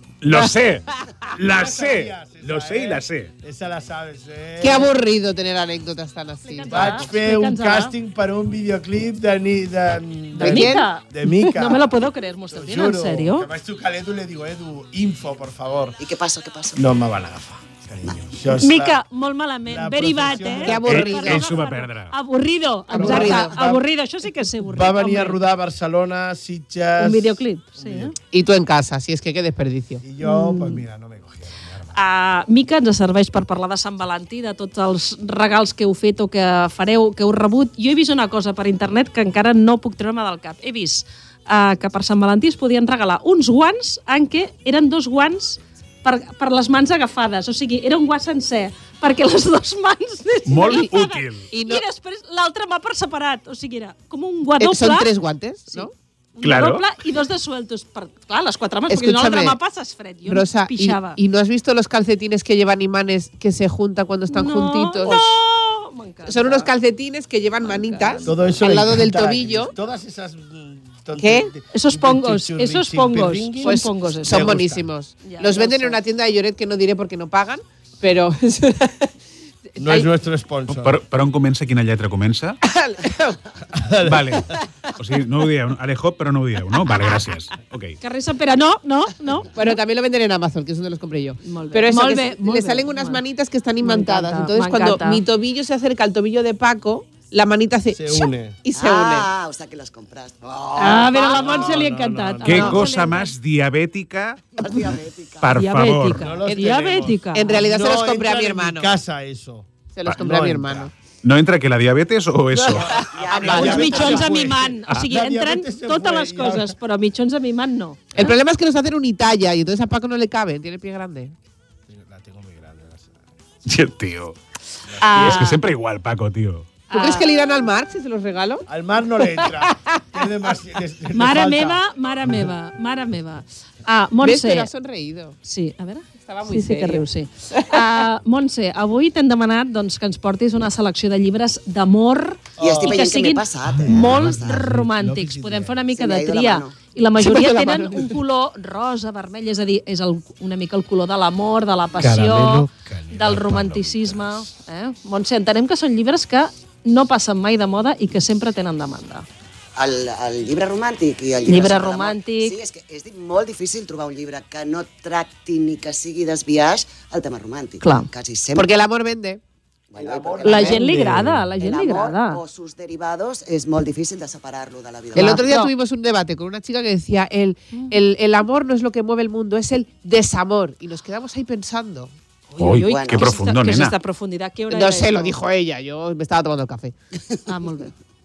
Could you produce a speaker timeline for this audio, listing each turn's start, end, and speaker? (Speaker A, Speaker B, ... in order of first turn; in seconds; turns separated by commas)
Speaker A: 0.2-3.3, Speaker B: 1.3-4.9, Speaker C: 4.6-7.0, Speaker D: 6.4-7.9, Speaker B: 6.7-16.0, Speaker C: 10.4-10.9, Speaker D: 10.4-13.5, Speaker E: 16.0-16.8, Speaker B: 16.8-19.0, Speaker D: 18.6-25.4, Speaker B: 19.6-20.9, Speaker C: 20.6-21.5, Speaker A: 20.9-22.1, Speaker B: 22.9-23.8, Speaker C: 22.9-23.6, Speaker B: 24.6-28.1, Speaker D: 27.0-28.1, Speaker C: 28.3-30.0, Speaker B: 30.0-32.0, Speaker D: 30.2-30.8, Speaker D: 31.9-55.1, Speaker A: 50.5-51.5, Speaker C: 51.5-51.8, Speaker C: 54.6-55.9, Speaker D: 55.7-61.2, Speaker A: 56.4-56.8, Speaker C: 58.9-59.6, Speaker C: 60.3-65.2, Speaker D: 64.3-66.7, Speaker C: 66.2-69.7, Speaker D: 67.6-68.3, Speaker B: 68.2-74.9, Speaker C: 71.2-71.5, Speaker D: 71.7-74.6, Speaker C: 73.6-79.1, Speaker D: 75.2-76.0, Speaker B: 79.8-81.0, Speaker C: 79.8-80.1, Speaker A: 80.7-82.6, Speaker C: 82.6-83.4, Speaker B: 83.7-84.4, Speaker A: 84.0-88.0, Speaker D: 88.0-89.5, Speaker C: 89.5-99.3, Speaker D: 91.4-93.2, Speaker D: 93.8-95.2, Speaker B: 97.9-98.6, Speaker E: 98.7-100.4, Speaker B: 100.4-102.9, Speaker D: 100.8-103.3, Speaker C: 101.2-101.5, Speaker A: 102.4-104.6, Speaker E: 104.6-105.5, Speaker A: 105.4-106.3, Speaker D: 105.5-107.6, Speaker B: 106.1-110.9, Speaker C: 107.3-108.9, Speaker C: 109.9-110.9, Speaker A: 111.2-113.0, Speaker B: 112.7-116.8, Speaker E: 113.1-114.3, Speaker C: 113.3-114.0, Speaker D: 113.4-118.3, Speaker C: 118.1-121.3, Speaker B: 121.9-123.2, Speaker A: 123.7-124.3, Speaker B: 124.9-125.5, Speaker D: 125.0-125.6, Speaker A: 125.1-126.7, Speaker D: 126.9-127.3, Speaker C: 126.9-128.7, Speaker B: 128.7-132.5, Speaker C: 129.4-130.0, Speaker D: 131.1-134.7, Speaker C: 134.2-135.3, Speaker D: 135.4-159.2, Speaker C: 136.1-137.8, Speaker B: 142.6-143.1, Speaker E: 142.6-144.7, Speaker B: 143.6-145.8, Speaker E: 145.9-146.7, Speaker C: 147.2-148.1, Speaker B: 151.9-154.5, Speaker E: 159.8-168.8, Speaker D: 161.5-162.5, Speaker D: 167.8-168.1, Speaker C: 168.6-169.4, Speaker E: 169.9-170.8, Speaker B: 169.9-171.5, Speaker D: 170.4-172.4, Speaker E: 171.6-175.5, Speaker C: 175.1-182.1, Speaker D: 175.2-175.7, Speaker D: 182.5-185.4, Speaker A: 182.6-183.9, Speaker E: 182.8-183.4, Speaker C: 184.7-186.9, Speaker D: 187.4-187.9